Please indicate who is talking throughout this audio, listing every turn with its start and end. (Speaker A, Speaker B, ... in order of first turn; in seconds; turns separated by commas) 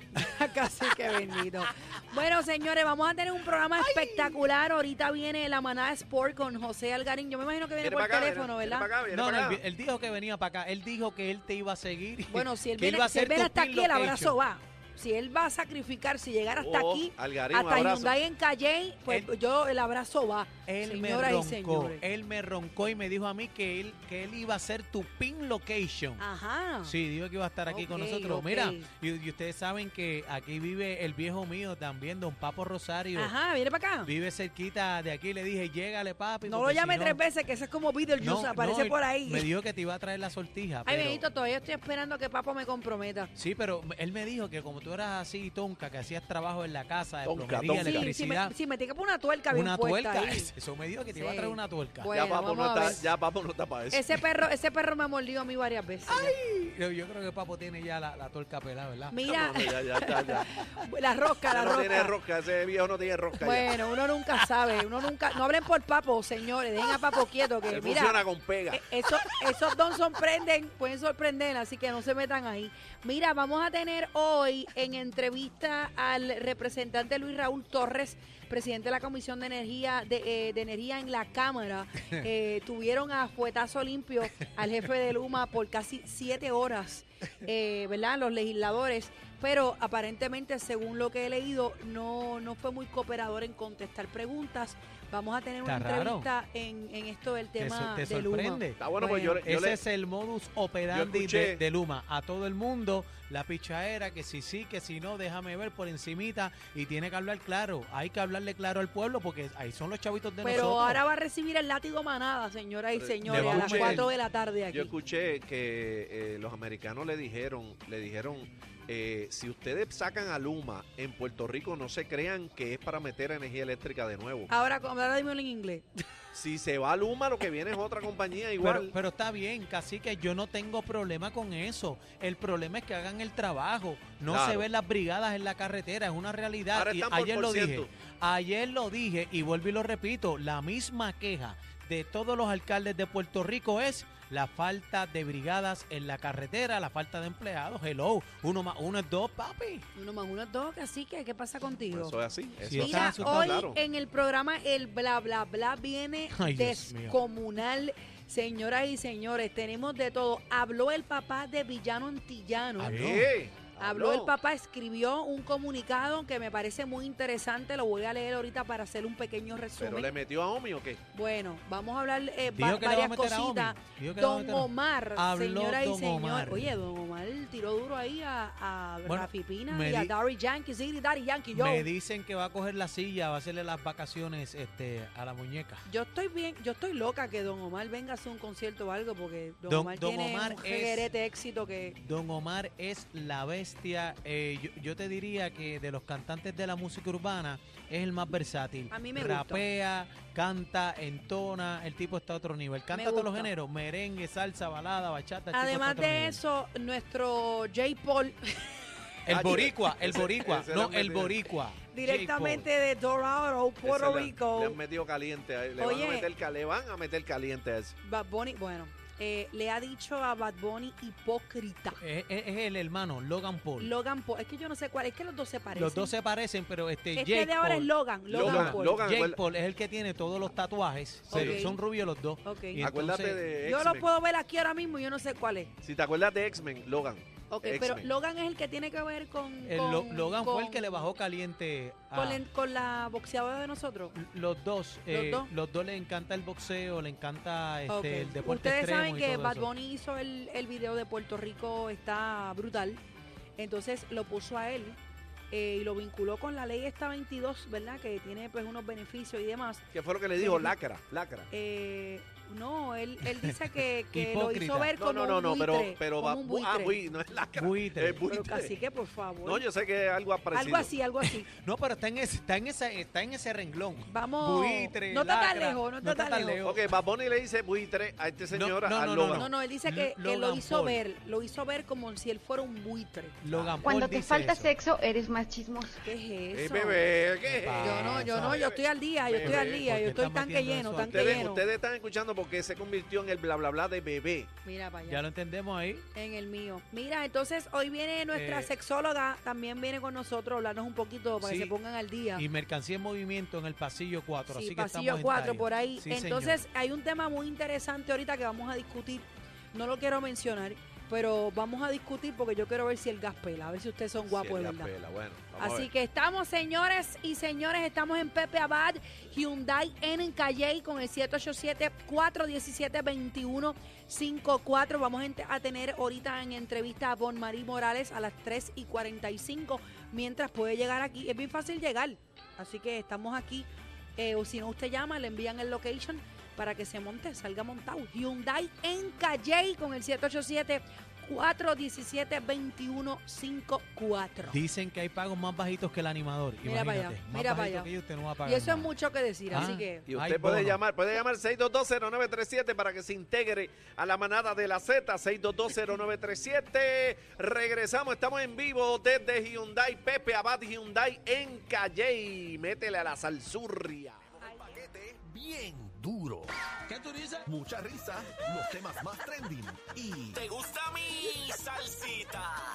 Speaker A: 0.1-8.9, Speaker B: 3.8-4.4, Speaker C: 7.8-9.6, Speaker B: 9.1-14.4, Speaker A: 12.3-22.0, Speaker C: 16.6-18.2, Speaker B: 20.7-26.2, Speaker A: 26.2-26.9, Speaker B: 26.8-33.3, Speaker A: 27.7-28.9, Speaker A: 33.1-34.1, Speaker B: 34.0-37.2, Speaker A: 36.4-39.5, Speaker B: 38.2-41.3, Speaker A: 40.8-43.3, Speaker B: 43.4-48.5, Speaker C: 47.2-48.1, Speaker A: 47.8-50.5, Speaker B: 49.5-52.1, Speaker A: 51.1-53.1, Speaker C: 52.1-54.0, Speaker A: 53.9-56.4, Speaker B: 56.1-59.2, Speaker A: 59.1-62.1, Speaker C: 59.3-60.5, Speaker C: 61.5-63.7, Speaker A: 63.4-99.4, Speaker C: 67.7-68.8, Speaker B: 95.6-96.3, Speaker B: 97.6-111.0, Speaker C: 98.8-99.8, Speaker C: 100.9-101.6, Speaker A: 110.4-114.9, Speaker C: 112.9-114.1, Speaker B: 113.2-114.1, Speaker C: 114.7-124.5, Speaker A: 124.5-126.0, Speaker C: 126.3-128.9, Speaker B: 128.6-149.8, Speaker C: 134.3-134.7, Speaker C: 136.7-137.9, Speaker A: 149.9-152.2, Speaker C: 151.9-153.8, Speaker B: 152.6-153.6, Speaker A: 152.8-163.2, Speaker B: 156.3-157.2, Speaker B: 162.8-163.3, Speaker C: 162.8-164.3, Speaker A: 163.8-170.1, Speaker C: 169.8-171.0, Speaker A: 171.1-181.9, Speaker B: 172.5-176.7, Speaker B: 179.1-180.1, Speaker B: 181.5-185.8, Speaker A: 185.8-192.0, Speaker B: 189.7-191.1, Speaker B: 192.0-206.4, Speaker A: 198.9-199.7, Speaker A: 202.9-203.5, Speaker A: 205.5-208.8, Speaker B: 209.3-212.7, Speaker C: 209.3-211.4, Speaker A: 211.9-214.8, Speaker C: 213.8-217.9, Speaker A: 215.8-216.3, Speaker A: 218.0-222.0, Speaker B: 222.0-223.9, Speaker A: 223.8-226.1, Speaker B: 225.7-233.5, Speaker A: 227.2-229.1, Speaker C: 228.3-229.4, Speaker C: 231.3-231.7, Speaker A: 231.3-231.8, Speaker A: 232.4-232.8, Speaker C: 232.8-234.1, Speaker A: 233.6-235.7, Speaker C: 235.8-238.1, Speaker A: 237.5-241.1, Speaker B: 239.7-242.4, Speaker A: 242.1-244.2, Speaker B: 244.1-249.7, Speaker A: 245.1-245.5, Speaker A: 247.9-253.0, Speaker A: 253.6-255.0, Speaker A: 255.5-259.8, Speaker C: 259.9-261.5, Speaker A: 260.4-260.8, Speaker A: 261.5-267.0, Speaker B: 264.1-264.9, Speaker C: 265.0-268.8, Speaker B: 267.5-268.2, Speaker A: 268.3-269.6, Speaker C: 269.4-270.9, Speaker A: 270.5-271.5, Speaker B: 271.2-276.9, Speaker A: 274.1-276.6, Speaker C: 276.6-279.5, Speaker B: 278.5-281.0, Speaker A: 279.3-283.4, Speaker B: 283.4-284.8, Speaker C: 283.5-283.9, Speaker D: 283.8-286.1, Speaker A: 286.0-287.1, Speaker C: 286.5-289.9, Speaker B: 287.4-288.6, Speaker A: 287.8-291.7, Speaker B: 289.4-291.4, Speaker C: 291.0-294.5, Speaker A: 294.6-295.2, Speaker B: 295.1-296.1, Speaker A: 296.1-302.4, Speaker B: 298.3-298.7, Speaker B: 301.4-301.8, Speaker B: 302.4-306.7, Speaker A: 304.5-314.9, Speaker C: 314.3-315.9, Speaker A: 315.6-344.6, Speaker B: 344.4-348.9, Speaker A: 346.6-347.9, Speaker A: 348.4-350.1, Speaker B: 349.5-350.8, Speaker C: 349.6-364.2, Speaker E: 364.3-370.5, Speaker A: 364.4-364.8, Speaker C: 370.3-372.4